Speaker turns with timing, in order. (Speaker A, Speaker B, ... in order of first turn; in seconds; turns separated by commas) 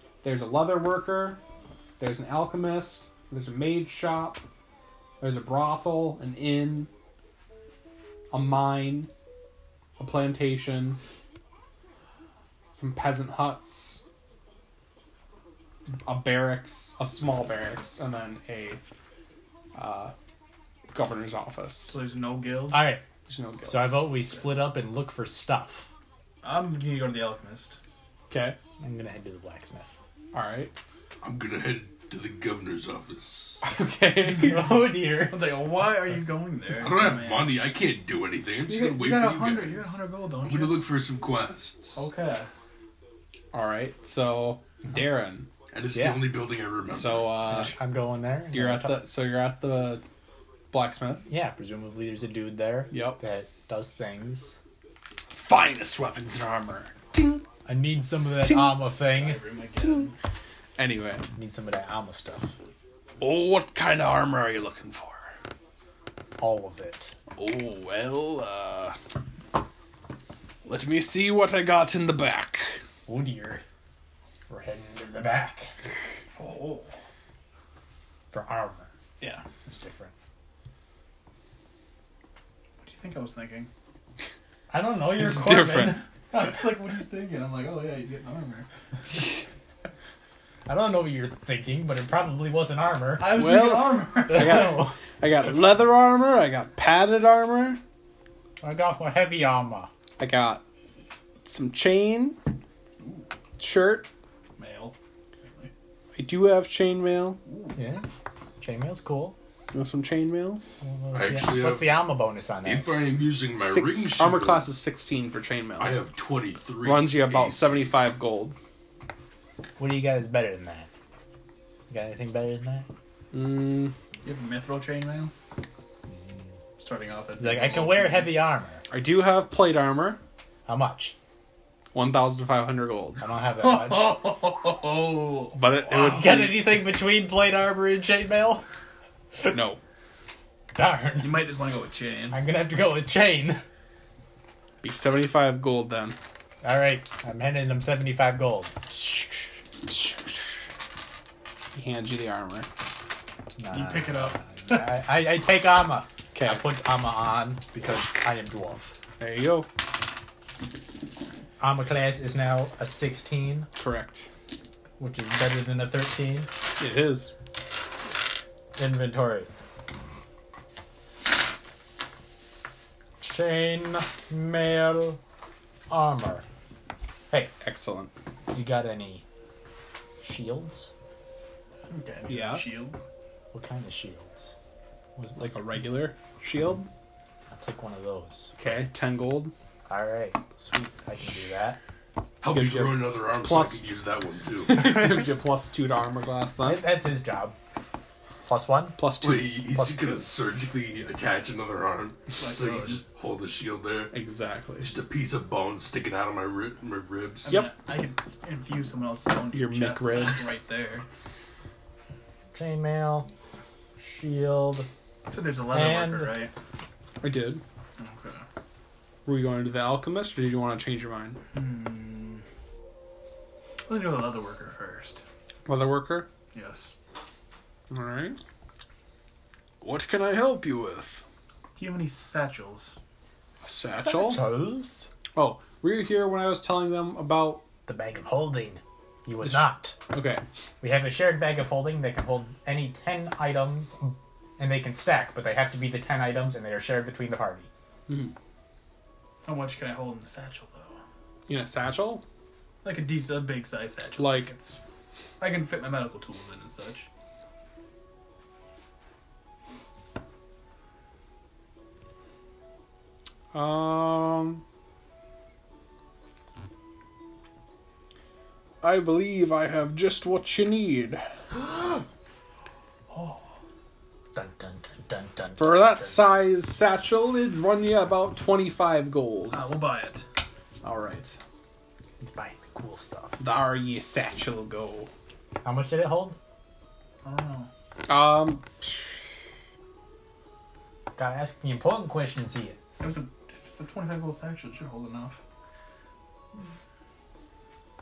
Speaker A: 0.2-1.4, Speaker A: 2.0-4.4, Speaker A: 5.2-6.9, Speaker A: 8.3-9.1, Speaker A: 10.0-11.0, Speaker A: 12.7-14.0, Speaker A: 16.0-18.8, Speaker A: 19.7-20.1, Speaker A: 20.9-21.9, Speaker B: 21.9-22.9, Speaker C: 22.7-23.0, Speaker A: 23.3-24.3, Speaker C: 23.6-25.9, Speaker B: 26.4-27.8, Speaker A: 28.3-28.6, Speaker C: 28.8-29.9, Speaker A: 30.3-30.7, Speaker D: 31.2-33.6, Speaker A: 33.6-34.7, Speaker C: 34.2-35.5, Speaker B: 35.3-37.5, Speaker D: 36.7-42.0, Speaker A: 38.7-39.1, Speaker B: 38.7-40.8, Speaker B: 41.9-42.5, Speaker A: 43.5-45.5, Speaker D: 45.7-47.7, Speaker C: 45.9-46.3, Speaker A: 46.9-47.7, Speaker C: 47.4-49.0, Speaker A: 48.5-50.0, Speaker A: 50.7-51.2, Speaker C: 51.3-54.6, Speaker A: 52.9-53.2, Speaker A: 55.3-57.5, Speaker C: 57.6-59.4, Speaker A: 58.4-58.9, Speaker B: 58.9-60.1, Speaker A: 59.8-60.1, Speaker A: 60.8-61.2, Speaker C: 61.3-62.5, Speaker A: 63.2-65.3, Speaker C: 66.4-67.1, Speaker A: 67.3-69.0, Speaker A: 70.6-72.8, Speaker C: 73.1-73.6, Speaker C: 74.5-75.7, Speaker B: 76.3-76.9, Speaker C: 78.3-78.9, Speaker B: 79.2-79.4, Speaker C: 79.6-80.1, Speaker B: 82.8-83.7, Speaker C: 84.7-86.0, Speaker A: 85.2-86.0, Speaker B: 86.3-88.7, Speaker C: 90.7-93.4, Speaker B: 93.2-94.8, Speaker A: 93.3-97.8, Speaker C: 94.3-95.0, Speaker C: 98.6-99.9, Speaker A: 100.2-100.6, Speaker A: 101.4-102.4, Speaker B: 103.0-103.3, Speaker A: 103.6-104.1, Speaker B: 104.6-105.7, Speaker A: 106.1-107.4, Speaker B: 107.5-107.8, Speaker C: 107.7-108.0, Speaker C: 108.6-109.3, Speaker A: 109.7-110.6, Speaker C: 110.8-112.9, Speaker D: 111.1-112.1, Speaker D: 112.6-114.7, Speaker A: 113.6-116.0, Speaker D: 115.8-117.9, Speaker A: 116.8-118.5, Speaker C: 119.8-120.9, Speaker C: 121.9-122.9, Speaker A: 123.3-123.9, Speaker B: 124.2-125.3, Speaker C: 126.1-126.4, Speaker B: 126.8-128.4, Speaker C: 127.4-128.8, Speaker A: 128.9-130.2, Speaker C: 130.7-131.1, Speaker A: 131.9-133.2, Speaker C: 133.2-134.2, Speaker B: 133.6-135.6, Speaker A: 135.5-136.7, Speaker C: 135.9-138.6, Speaker A: 139.5-139.8, Speaker C: 140.7-141.4, Speaker B: 141.2-142.4, Speaker C: 142.3-143.6, Speaker A: 144.8-146.2, Speaker C: 146.6-148.8, Speaker A: 148.9-150.3, Speaker A: 151.7-152.7, Speaker C: 153.6-158.8, Speaker B: 153.7-154.9, Speaker A: 156.3-156.6, Speaker A: 159.2-159.7, Speaker C: 161.6-163.7, Speaker A: 163.8-164.3, Speaker C: 165.0-166.5, Speaker A: 166.8-167.3, Speaker C: 168.8-169.5, Speaker C: 173.2-175.2, Speaker C: 175.9-176.4, Speaker A: 177.6-178.1, Speaker C: 178.5-179.2, Speaker C: 180.2-180.9, Speaker B: 181.8-183.0, Speaker A: 182.3-182.7, Speaker C: 183.5-184.5, Speaker C: 185.2-185.9, Speaker A: 185.4-186.9, Speaker C: 187.5-188.6, Speaker A: 188.6-189.5, Speaker C: 189.9-191.8, Speaker D: 192.4-194.9, Speaker A: 192.5-193.9, Speaker A: 194.7-196.9, Speaker C: 196.6-197.6, Speaker C: 198.4-199.0, Speaker A: 199.0-199.5, Speaker D: 199.2-204.1, Speaker C: 199.7-200.3, Speaker B: 202.4-203.0, Speaker A: 204.1-204.9, Speaker D: 204.8-207.6, Speaker B: 207.4-211.1, Speaker A: 209.5-210.6, Speaker C: 212.5-213.3, Speaker C: 214.0-214.9, Speaker B: 215.3-216.5, Speaker C: 215.7-216.3, Speaker A: 217.2-217.6, Speaker B: 218.0-218.4, Speaker A: 219.2-221.4, Speaker B: 221.5-222.4, Speaker B: 223.9-225.2, Speaker A: 225.7-226.3, Speaker B: 226.5-226.9, Speaker A: 227.9-228.4, Speaker A: 229.8-231.2, Speaker B: 231.8-232.9, Speaker A: 233.6-234.4, Speaker C: 233.8-235.1, Speaker A: 235.3-237.6, Speaker C: 237.8-239.9, Speaker A: 239.4-240.4, Speaker C: 240.8-247.7, Speaker A: 248.1-248.3, Speaker B: 249.4-251.0, Speaker A: 251.5-252.2, Speaker B: 252.8-254.8, Speaker A: 254.2-254.5, Speaker B: 255.4-257.1, Speaker A: 263.5-264.6, Speaker A: 268.8-271.2, Speaker B: 271.5-272.0, Speaker B: 273.1-273.6, Speaker C: 274.3-276.3, Speaker A: 275.6-279.6, Speaker B: 279.5-280.2, Speaker A: 280.8-281.4, Speaker C: 282.2-283.4, Speaker A: 283.4-285.1, Speaker C: 285.6-286.4, Speaker B: 287.2-287.7, Speaker A: 288.1-289.1, Speaker C: 291.1-292.8, Speaker B: 293.0-295.4